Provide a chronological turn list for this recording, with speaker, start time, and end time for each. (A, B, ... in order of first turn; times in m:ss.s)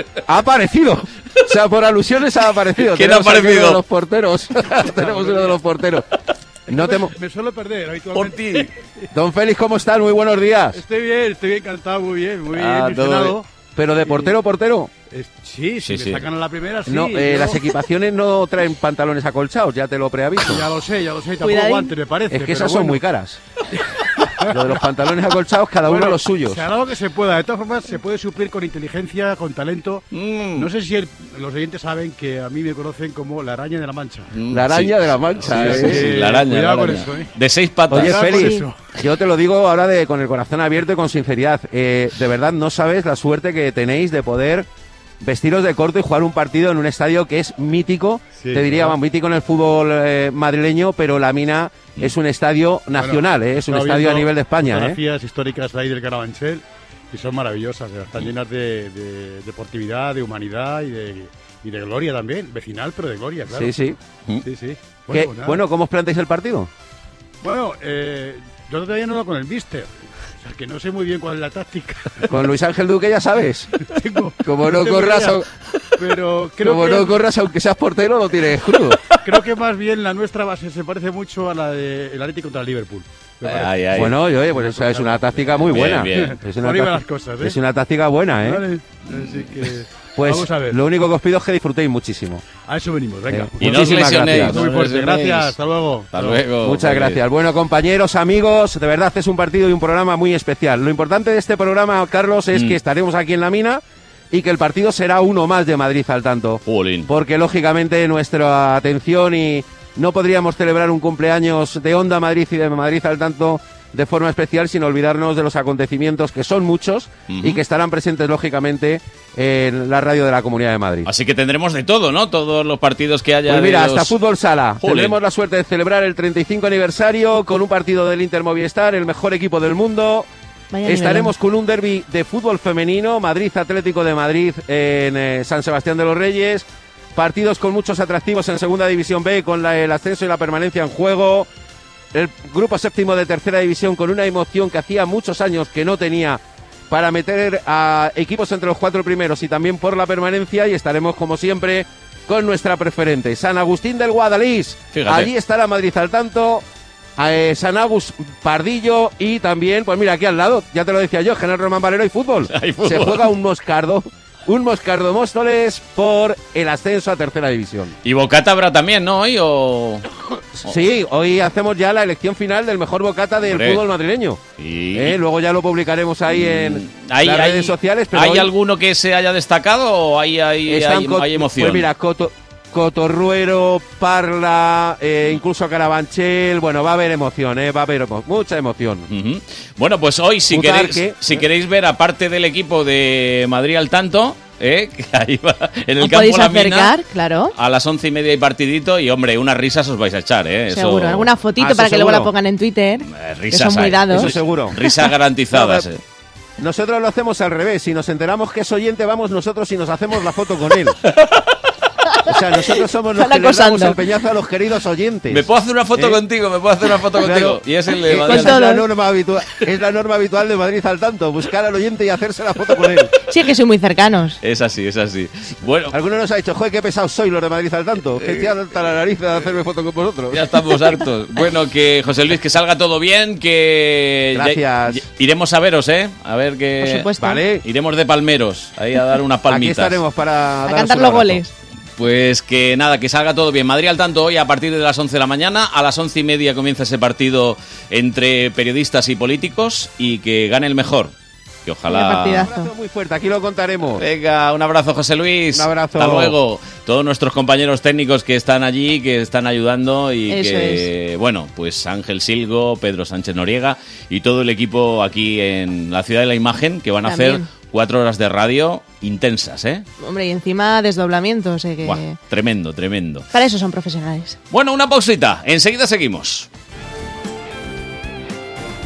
0:00.3-0:06.0 A
0:02.8-0:03.8 B
0:04.9-0:05.6 C
0:06.7-0:07.1 A
0:06.7-0:08.8 C
0:08.1-0:08.7 B
0:09.1-0:10.8 A
0:10.7-0:14.4 C
0:12.5-0:13.4 B
0:13.8-0:14.9 A
0:15.1-0:17.6 C
0:15.8-0:16.3 B
0:16.9-0:20.6 A
0:20.4-0:23.1 C
0:21.4-0:21.9 D
0:22.3-0:23.4 A
0:24.5-0:26.7 A
0:25.8-0:34.3 C
0:30.1-0:30.7 B
0:34.3-0:38.6 B
0:34.5-0:36.2 A
0:35.5-0:37.3 C
0:37.9-0:44.7 A
0:37.9-0:38.8 C
0:38.3-0:38.6 D
0:45.2-0:55.0 A
0:48.3-0:49.0 C
0:52.9-1:03.7 C
1:03.5-1:04.0 A
1:04.4-1:05.7 C
1:05.1-1:06.7 A
1:07.4-1:12.4 C
1:12.3-1:13.7 A
1:13.8-1:15.4 C
1:14.4-1:15.5 A
1:16.0-1:17.2 C
1:16.6-1:19.0 A
1:19.2-1:27.6 C
1:23.4-1:24.2 B
1:23.9-1:28.6 A
1:25.7-1:26.4 B
1:28.3-1:30.8 C
1:29.1-1:29.5 B
1:30.1-1:32.4 A
1:32.6-1:36.4 C
1:33.3-1:34.6 A
1:33.6-1:35.6 B
1:36.1-1:37.2 B
1:36.6-2:01.1 A
1:42.5-1:42.8 B
1:46.6-1:47.1 B
1:57.3-1:57.6 B
2:01.0-2:04.2 B
2:03.5-2:10.3 A
2:04.8-2:05.2 B
2:10.7-2:11.3 D
2:10.8-2:21.5 A
2:22.1-2:36.6 A
2:34.9-2:35.3 B
2:37.2-2:47.9 A
2:42.5-2:43.3 B
2:48.0-2:50.0 B
2:50.6-2:54.4 A
2:53.4-2:53.8 B
2:54.6-2:55.2 B
2:54.9-2:58.5 A
2:56.3-3:01.9 B
3:00.7-3:09.1 A
3:09.1-3:16.9 B
3:10.5-3:11.4 A
3:16.0-3:17.5 D
3:17.5-3:21.3 B
3:20.7-3:24.3 D
3:21.6-3:22.3 A
3:23.1-3:26.0 B
3:24.1-3:24.8 A
3:25.5-3:25.8 A
3:26.6-3:31.0 A
3:32.2-3:36.2 A
3:33.2-3:34.0 D
3:35.3-3:38.6 B
3:37.2-3:43.1 A
3:38.1-3:38.8 D
3:43.3-3:44.4 D
3:44.4-3:45.9 B
3:45.9-3:50.4 A
3:48.2-3:48.5 B
3:50.3-4:00.0 B
3:54.3-3:55.0 A
3:56.8-3:57.4 D
3:57.2-3:57.6 A
3:59.5-4:01.4 A
4:00.7-4:01.5 D
4:02.0-4:11.1 B
4:11.6-4:12.5 B
4:11.9-4:12.7 D
4:12.4-4:14.0 A
4:13.9-4:29.8 B
4:15.5-4:16.4 A
4:20.3-4:20.9 D
4:27.0-4:27.4 D
4:30.0-4:32.2 D
4:31.8-4:33.3 B
4:33.3-4:34.4 D
4:34.5-4:36.5 B